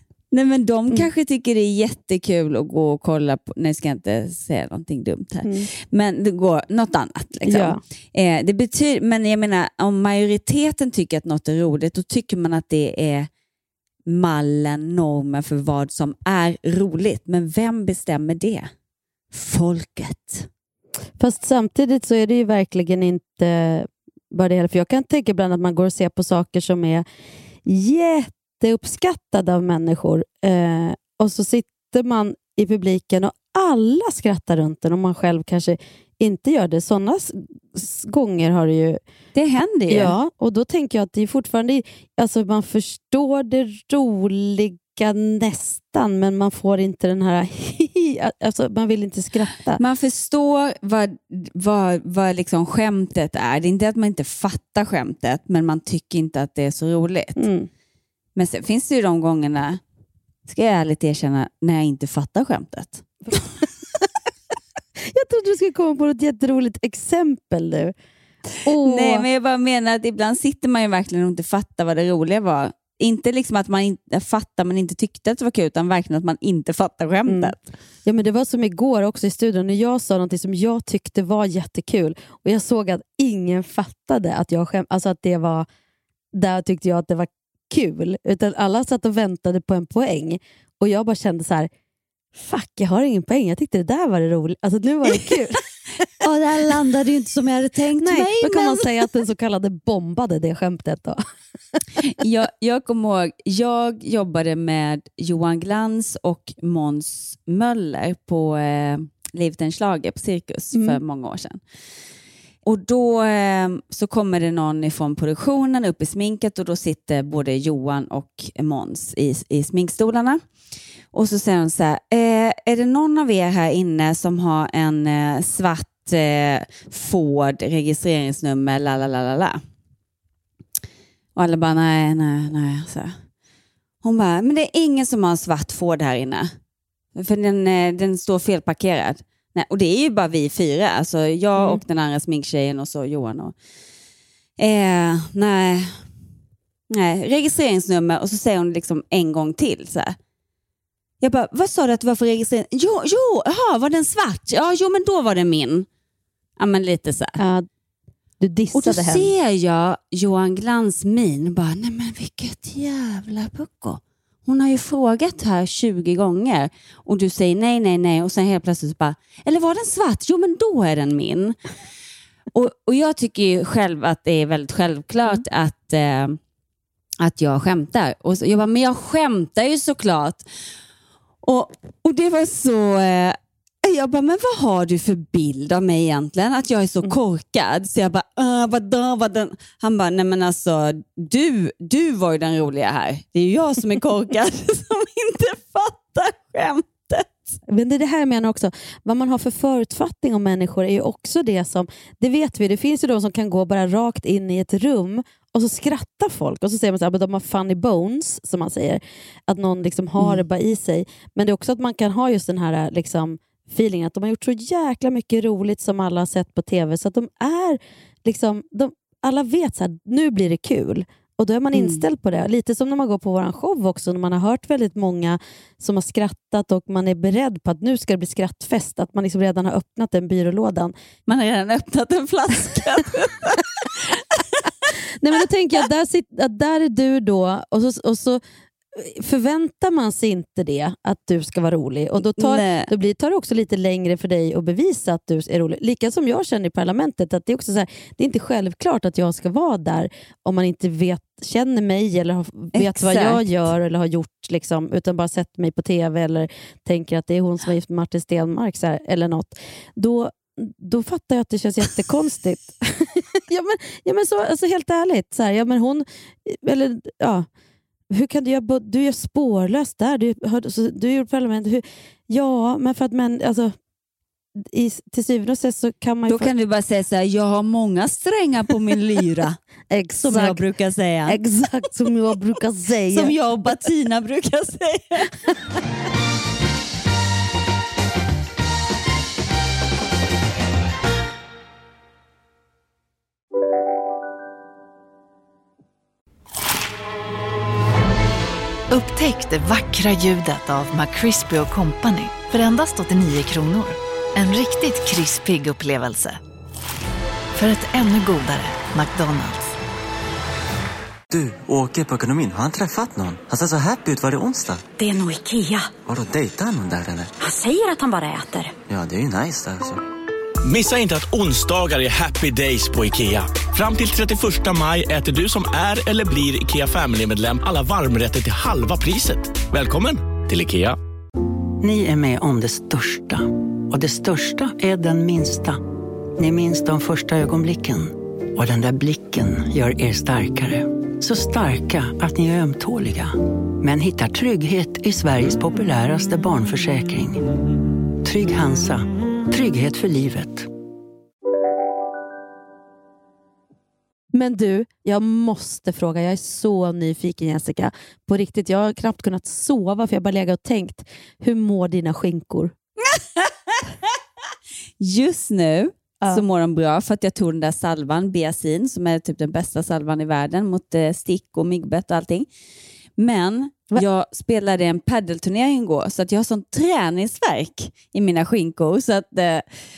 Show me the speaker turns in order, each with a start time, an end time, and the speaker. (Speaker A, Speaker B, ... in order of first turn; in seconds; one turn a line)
Speaker A: 0.3-13.3
Speaker B: 7.5-7.8
Speaker A: 14.1-18.7
Speaker A: 19.3-20.5
Speaker B: 21.2-27.1
Speaker B: 27.6-39.0
Speaker A: 39.3-40.1
Speaker B: 39.9-49.8
Speaker A: 49.8-57.5
Speaker B: 57.4-57.7
Speaker A: 58.4-59.8
Speaker A: 60.5-63.0
Speaker B: 63.3-64.1
Speaker B: 65.0-67.9
Speaker B: 68.6-69.2
Speaker A: 68.8-77.6
Speaker B: 77.2-85.7
Speaker B: 86.3-91.7
Speaker B: 92.3-95.6
Speaker A: 96.2-98.9
Speaker B: 98.0-101.2
Speaker A: 102.0-111.6
Speaker B: 110.7-111.0
Speaker A: 112.6-120.4
Speaker A: 121.1-129.6
Speaker A: 131.3-133.2
Speaker A: 134.0-136.5
Speaker A: 137.2-143.5
Speaker B: 141.6-141.8
Speaker A: 144.6-146.1
Speaker A: 146.9-150.2
Speaker A: 151.2-155.9
Speaker A: 156.6-157.4
Speaker B: 157.4-157.7
Speaker B: 158.4-159.3
Speaker A: 158.7-171.6
Speaker A: 172.5-176.4
Speaker A: 177.2-180.5
Speaker A: 181.4-197.6
Speaker B: 197.7-230.9
Speaker A: 221.7-222.0
Speaker A: 231.3-234.9
Speaker B: 235.2-238.4
Speaker B: 238.9-267.5
Speaker A: 242.4-242.9
Speaker A: 252.7-253.4
Speaker B: 268.1-273.7
Speaker B: 274.6-276.5
Speaker A: 276.3-279.6
Speaker B: 279.9-280.6
Speaker A: 280.2-281.4
Speaker B: 281.2-283.3
Speaker A: 283.1-285.3
Speaker C: 298.9-306.4
Speaker C: 307.5-309.8
Speaker D: 311.3-314.8
Speaker E: 315.0-316.0
Speaker D: 316.0-317.3
Speaker E: 317.4-318.7
Speaker D: 318.9-320.0
Speaker F: 320.6-331.0
Speaker G: 331.8-335.8
Speaker G: 336.4-347.4
Speaker G: 348.2-350.7
Speaker B: 354.3-362.7
Speaker A: 363.1-363.8
Speaker A: 365.0-372.5
Speaker A: 373.2-379.6